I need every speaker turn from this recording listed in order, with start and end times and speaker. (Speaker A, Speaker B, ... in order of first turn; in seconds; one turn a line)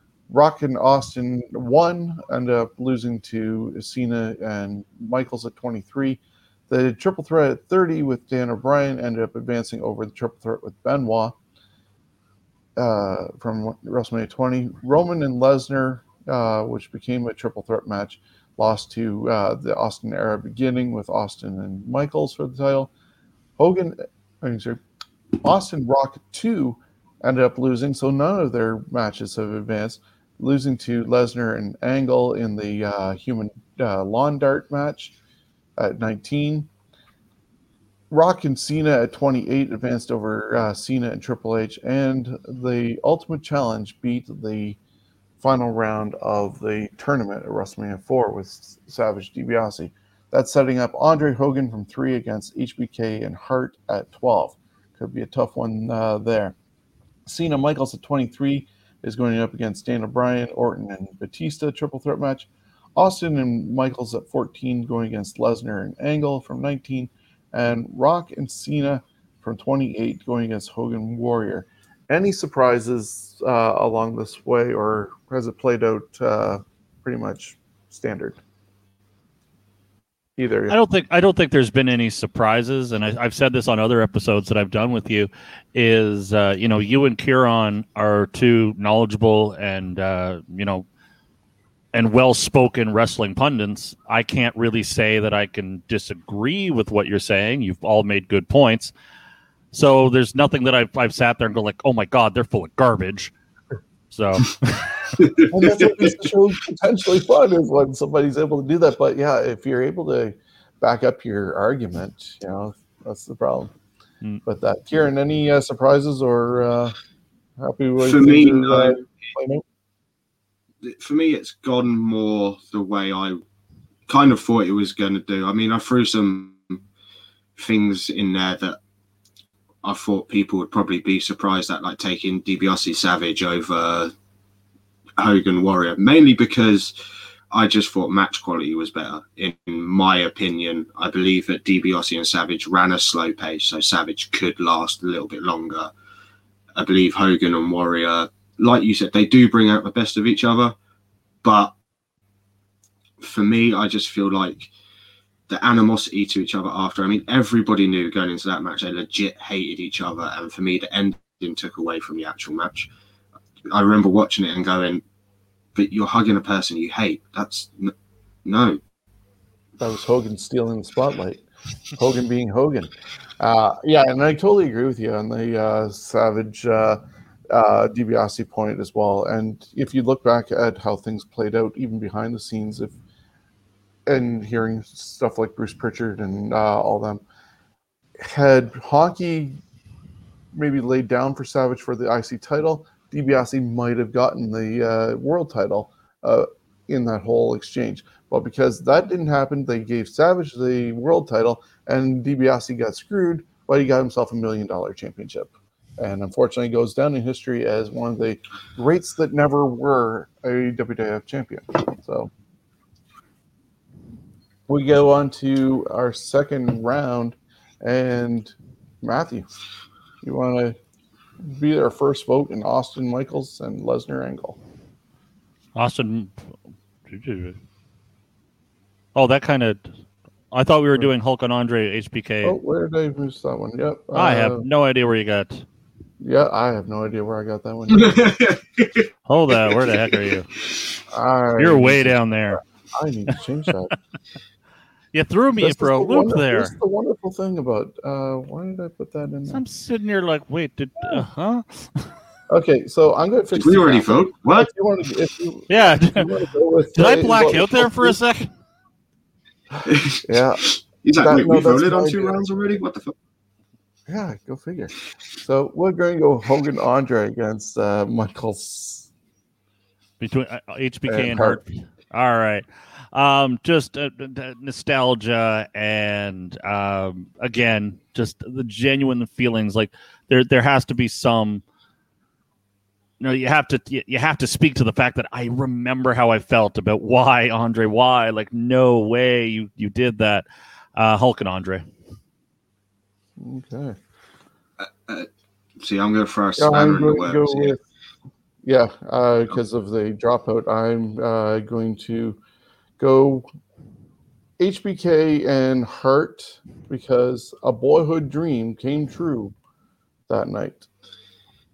Speaker A: 0.3-11.4
Speaker A: 12.8-22.9
Speaker A: 23.6-24.8
Speaker A: 25.4-35.1
Speaker A: 35.8-36.7
Speaker A: 38.1-44.8
Speaker A: 45.4-56.6
Speaker A: 57.3-78.4
Speaker A: 80.4-80.8
Speaker B: 80.7-90.9
Speaker B: 91.9-98.9
Speaker B: 99.7-103.3
Speaker B: 104.1-104.9
Speaker C: 105.2-106.2
Speaker A: 105.5-113.7
Speaker A: 114.4-117.0
Speaker A: 117.6-119.6
Speaker C: 118.0-119.1
Speaker C: 120.8-123.4
Speaker C: 124.1-126.8
Speaker C: 127.6-128.8
Speaker C: 129.8-134.1
Speaker C: 135.2-136.9
Speaker C: 137.5-145.9
Speaker C: 146.8-150.8
Speaker C: 151.4-151.7
Speaker C: 153.2-154.7
Speaker C: 155.5-162.9
Speaker C: 163.7-165.0
Speaker C: 165.8-167.9
Speaker C: 168.4-168.8
Speaker A: 169.8-177.0
Speaker A: 177.5-182.9
Speaker A: 184.1-187.2
Speaker A: 188.2-189.6
Speaker A: 190.5-212.3
Speaker A: 214.7-219.5
Speaker A: 220.2-220.8
Speaker A: 221.4-224.6
Speaker B: 225.8-226.3
Speaker B: 227.1-227.6
Speaker B: 229.2-229.9
Speaker B: 230.5-232.6
Speaker A: 232.4-234.6
Speaker B: 234.1-235.7
Speaker A: 236.2-238.3
Speaker C: 237.9-240.3
Speaker B: 239.3-240.5
Speaker A: 241.1-243.9
Speaker B: 241.6-242.6
Speaker B: 245.1-246.7
Speaker A: 245.6-249.6
Speaker B: 249.5-252.1
Speaker A: 252.5-258.2
Speaker C: 253.6-254.7
Speaker B: 255.7-256.3
Speaker B: 256.9-258.5
Speaker C: 259.9-263.1
Speaker A: 260.2-260.6
Speaker A: 261.2-262.4
Speaker A: 264.1-269.1
Speaker B: 270.2-281.6
Speaker A: 271.1-271.6
Speaker B: 283.2-291.8
Speaker A: 293.4-294.0
Speaker C: 294.8-295.3
Speaker C: 295.8-297.8
Speaker A: 296.6-297.8
Speaker A: 298.6-302.4
Speaker A: 303.0-303.5
Speaker A: 304.6-309.6
Speaker A: 310.3-310.9